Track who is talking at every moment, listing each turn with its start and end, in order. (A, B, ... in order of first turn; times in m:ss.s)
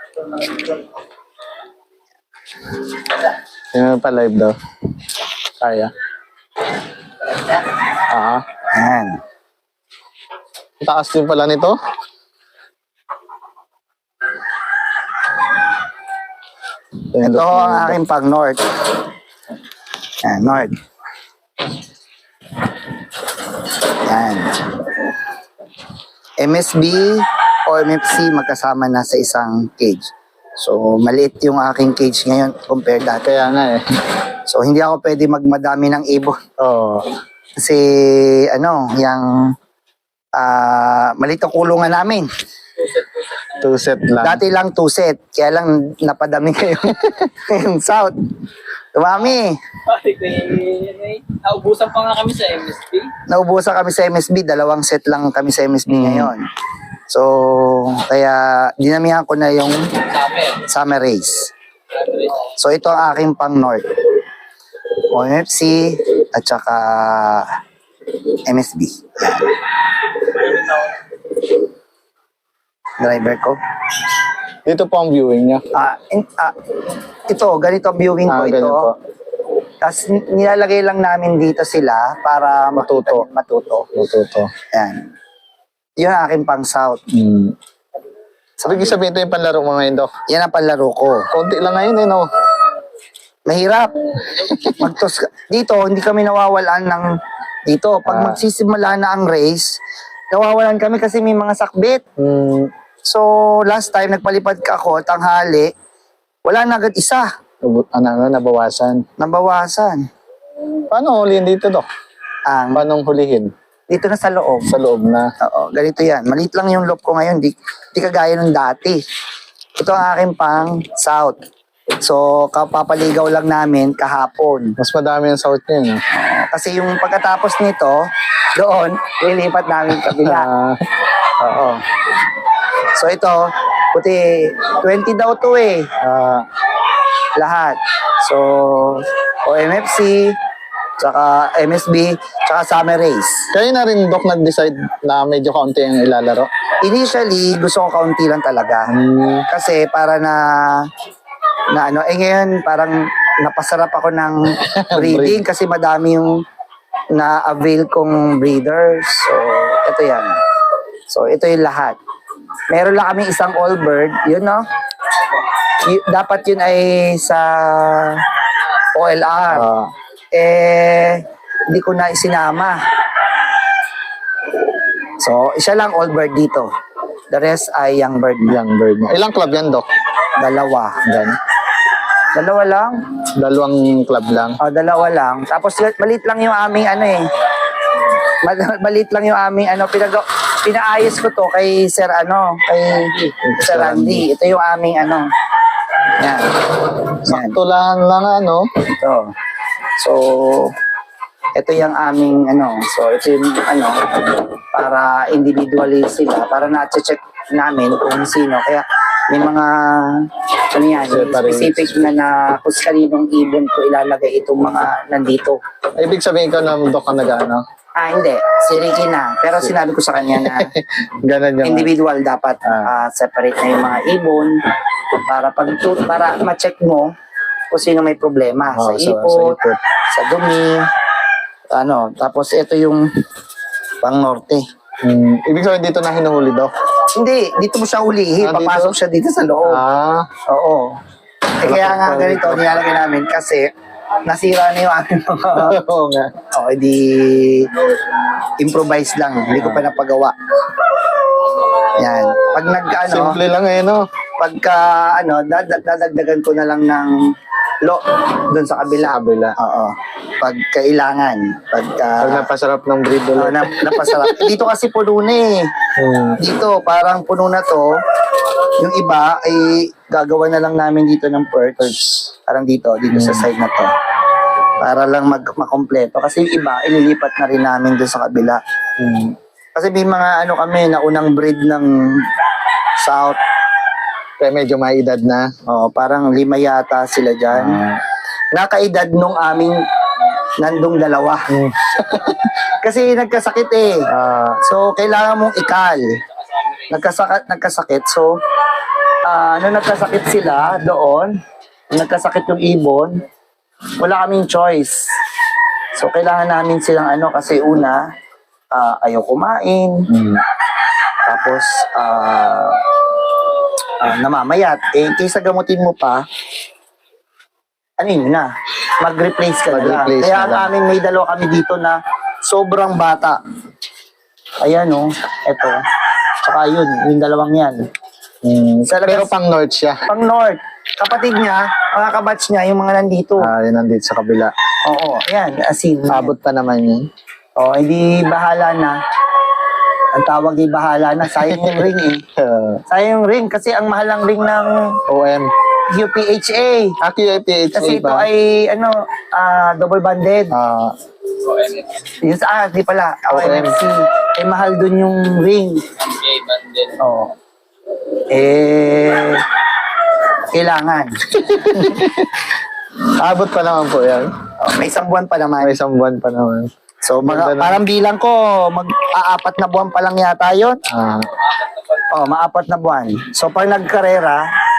0:03.7-0:04.5 A
0:05.6-0:05.9 A
0:08.1-0:08.4 A
0:08.7-0:09.2 B
0:10.8-0:11.8 A
0:17.1-0:18.0 A
0:17.2-0:18.6 B
0:20.2-0:20.7 B
0:24.0-0:24.8 B
0:26.4-0:33.3 B
0:33.2-0:33.8 A
0:34.4-0:36.4 B
0:36.6-0:37.0 A
0:37.6-0:39.5 B
0:40.4-0:42.3 B
0:42.8-0:43.8 C
0:43.6-0:44.4 A
0:44.2-0:48.1 B
0:48.9-0:49.5 B
0:49.8-0:53.1 C
0:53.3-0:56.4 B
0:55.9-0:56.3 A
0:57.1-0:59.8 B
1:00.1-1:00.6 C
1:00.6-1:01.5 B
1:01.9-1:02.5 C
1:02.6-1:03.8 B
1:05.1-1:07.5 B
1:08.4-1:09.6 B
1:13.0-1:13.6 B
1:14.6-1:15.6 A
1:15.7-1:16.5 B
1:17.3-1:18.9 B
1:18.3-1:18.9 A
1:19.8-1:23.9 B
1:22.8-1:23.2 A
1:23.9-1:24.5 A
1:24.7-1:25.1 B
1:26.0-1:27.0 B
1:27.1-1:27.5 A
1:28.6-1:29.0 B
1:28.6-1:30.1 A
1:30.3-1:31.3 B
1:31.3-1:32.3 A
1:33.5-1:33.9 B
1:34.3-1:34.9 A
1:34.6-1:37.1 B
1:37.7-1:39.7 B
1:38.0-1:38.4 A
1:40.3-1:42.0 B
1:42.2-1:42.7 A
1:43.0-1:45.7 B
1:46.4-1:47.3 B
1:47.6-1:49.0 A
1:49.2-1:50.0 B
1:50.9-1:51.9 A
1:52.5-1:52.8 B
1:52.7-1:53.5 A
1:53.9-1:54.7 B
1:54.7-1:55.3 A
1:55.4-1:59.0 B
1:59.8-2:01.4 B
2:02.0-2:04.7 B
2:04.8-2:06.0 A
2:06.1-2:08.0 B
2:08.6-2:10.5 B
2:10.0-2:10.8 A
2:11.4-2:11.8 B
2:12.9-2:15.8 B
2:16.0-2:16.4 A
2:17.4-2:20.4 B
2:21.0-2:23.5 B
2:23.5-2:26.5 A
2:26.8-2:28.9 B
2:28.9-2:29.5 A
2:29.5-2:30.9 B
2:31.7-2:34.4 B
2:34.6-2:35.4 A
2:34.9-2:36.3 B
2:37.1-2:40.4 B
2:41.1-2:42.0 B
2:42.7-2:44.6 B
2:45.8-2:48.2 B
2:48.9-2:49.7 B
2:49.5-2:49.9 A
2:50.3-2:52.8 B
2:55.2-2:56.7 B
2:57.3-2:58.6 B
2:58.5-2:59.9 A
3:00.4-3:01.0 B
3:01.0-3:01.4 A
3:02.3-3:03.0 B
3:03.4-3:04.6 A
3:04.6-3:07.3 B
3:08.4-3:15.2 B
3:13.4-3:14.3 A
3:16.2-3:17.6 B
3:17.2-3:18.7 A
3:18.9-3:19.2 B
3:20.0-3:20.7 B
3:21.6-3:35.6 B
3:31.1-3:32.1 A
3:36.0-3:37.6 A
3:38.0-3:40.7 B
3:40.4-3:41.9 A
3:41.6-3:44.6 B
3:42.6-3:42.9 A
3:45.2-3:47.1 B
3:47.7-3:49.6 B
3:48.7-3:49.8 A
3:50.1-3:50.8 B
3:51.7-3:53.0 B
3:54.0-3:54.6 B
3:55.0-3:56.7 A
3:57.1-3:59.8 B
3:58.4-3:59.0 A
3:59.6-4:00.3 A
4:00.5-4:00.9 B
4:01.6-4:03.6 B
4:01.6-4:02.7 A
4:04.2-4:05.8 B
4:05.6-4:06.3 A
4:06.5-4:07.8 B
4:08.6-4:10.3 B
4:09.5-4:09.9 A
4:11.9-4:13.4 B
4:13.0-4:14.1 A
4:14.4-4:17.1 B
4:17.8-4:22.5 B
4:19.0-4:19.6 A
4:22.2-4:24.6 A
4:23.4-4:25.7 B
4:26.0-4:26.4 A
4:26.4-4:27.9 B
4:28.7-4:33.9 B
4:33.1-4:33.5 A
4:34.8-4:38.6 B
4:39.0-4:39.4 A
4:39.7-4:42.2 B
4:43.0-4:43.4 B
4:44.4-4:45.5 A
4:45.7-4:47.8 B
4:47.5-4:48.0 A
4:48.5-4:49.8 B
4:50.6-4:51.4 B
4:51.5-4:52.5 A
4:52.8-4:54.1 B
4:54.1-4:54.6 A
4:54.6-4:56.2 B
4:56.2-4:57.0 C
4:56.9-4:58.3 B
4:59.2-5:01.3 B
5:01.9-5:03.2 B
5:04.0-5:05.1 B
5:05.9-5:08.0 B
5:08.7-5:10.0 B
5:10.1-5:10.4 A
5:11.3-5:12.8 B
5:14.0-5:16.2 B
5:18.0-5:18.5 B
5:19.0-5:23.4 B
5:19.7-5:20.7 A
5:24.6-5:25.8 B
5:26.4-5:27.8 B
5:28.4-5:30.0 A
5:28.8-5:29.3 B
5:30.1-5:33.5 B
5:33.4-5:34.5 A
5:34.9-5:36.3 B
5:36.1-5:37.1 A
5:37.6-5:38.9 B
5:40.1-5:42.2 B
5:41.3-5:42.8 A
5:42.9-5:44.7 B
5:45.1-5:45.5 A
5:45.9-5:47.0 B
5:47.0-5:48.3 A
5:47.7-5:50.6 B
5:50.5-5:50.9 A
5:51.4-5:52.1 C
5:52.2-5:55.8 B
5:53.3-5:53.8 A
5:56.0-5:57.0 C
5:57.0-5:57.3 B
5:58.3-5:59.4 B
6:00.5-6:01.5 B
6:01.3-6:02.5 A
6:03.0-6:04.3 A
6:04.6-6:05.8 B
6:05.6-6:06.7 A
6:07.0-6:10.8 B
6:07.2-6:07.8 A
6:10.9-6:11.3 A
6:11.3-6:12.0 C
6:12.1-6:14.4 B